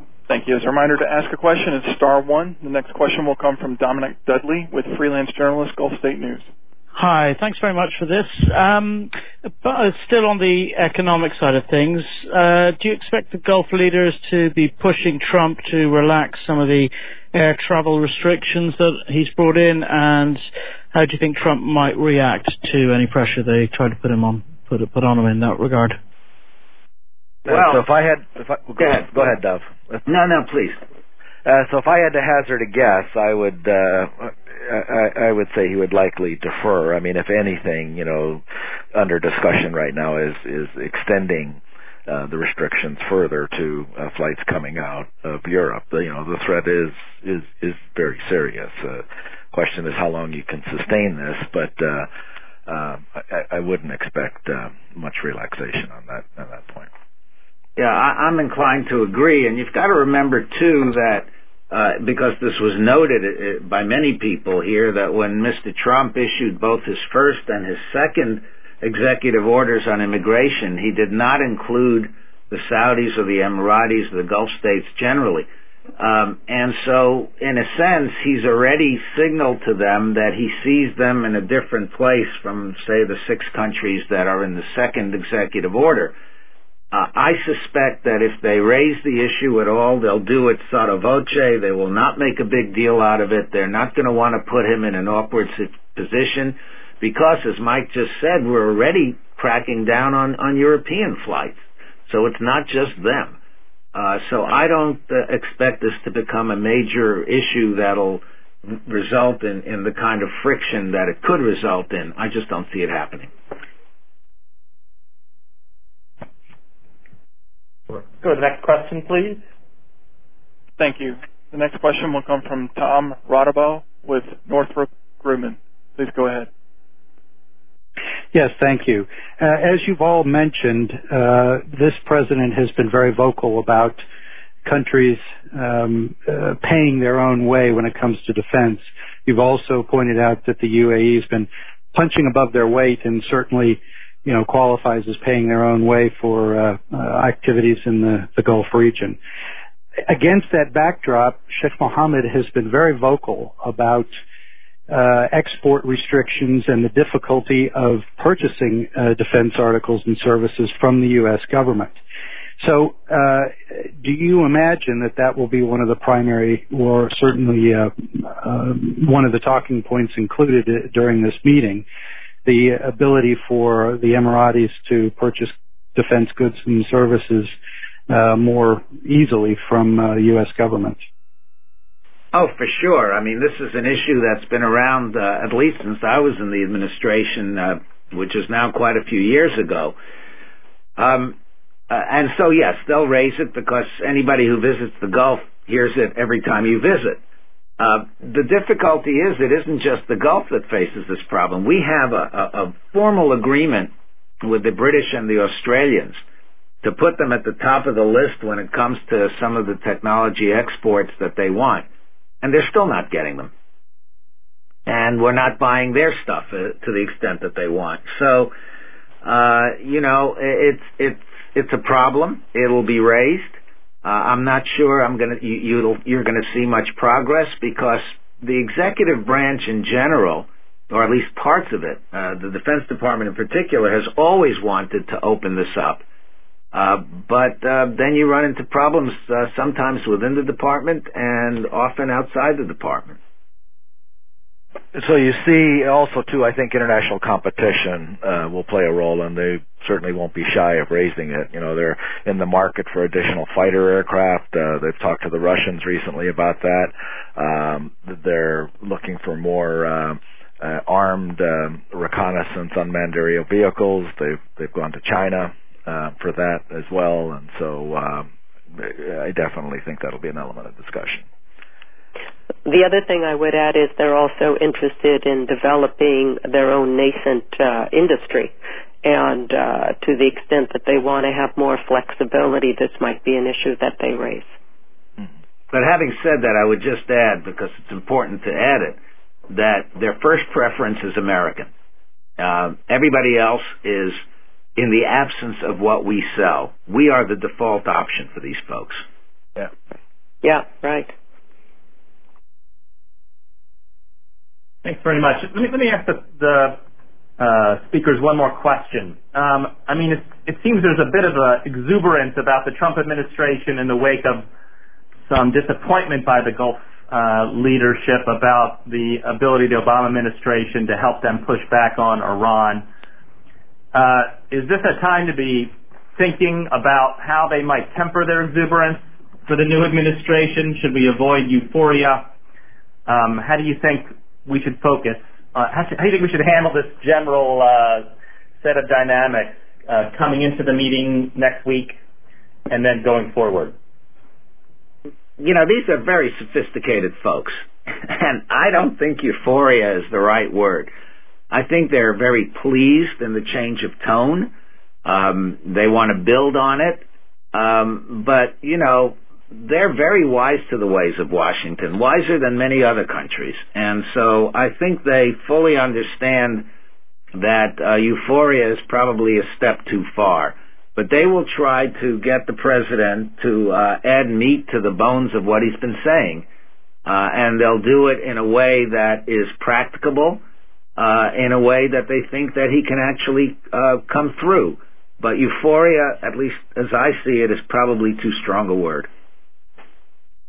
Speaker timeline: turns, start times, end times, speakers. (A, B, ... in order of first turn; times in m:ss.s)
0:00.3-0:06.5 A
0:06.9-0:26.0 B
0:27.4-0:30.0 C
0:27.5-0:27.8 D
0:30.0-0:30.8 D
0:31.4-0:38.4 C
0:38.9-0:52.1 C
0:52.7-0:56.9 C
0:57.8-1:26.1 D
1:26.9-1:43.4 D
1:43.9-1:53.3 D
1:57.9-1:59.4 E
2:00.8-2:06.5 A
2:08.3-2:14.0 F
2:14.6-2:29.2 F
2:30.1-2:34.1 F
2:34.9-2:42.0 F
2:42.6-2:51.8 F
2:52.4-2:57.5 F
2:58.1-3:01.0 F
3:02.3-3:10.0 D
3:11.0-3:11.4 D
3:11.9-3:17.2 D
3:17.8-3:26.2 D
3:26.8-3:31.9 D
3:32.4-3:33.5 D
3:34.8-3:38.5 D
3:39.2-3:56.0 D
3:56.7-4:03.2 D
4:04.9-4:31.2 C
4:32.6-4:38.5 G
4:39.0-4:44.5 G
4:45.7-4:51.7 D
4:52.4-4:54.2 D
4:54.8-4:59.0 D
5:00.4-5:01.1 G
5:04.8-5:06.8 E
5:07.4-5:14.4 E
5:15.3-5:22.8 E
5:23.9-5:32.3 E
5:33.1-5:38.1 E
5:38.6-5:41.9 E
5:42.7-5:43.7 E
5:45.4-5:50.9 D
5:51.5-5:54.5 D
5:55.0-6:06.7 D
6:07.3-6:16.4 D
6:17.0-6:20.4 D
6:21.0-6:29.1 D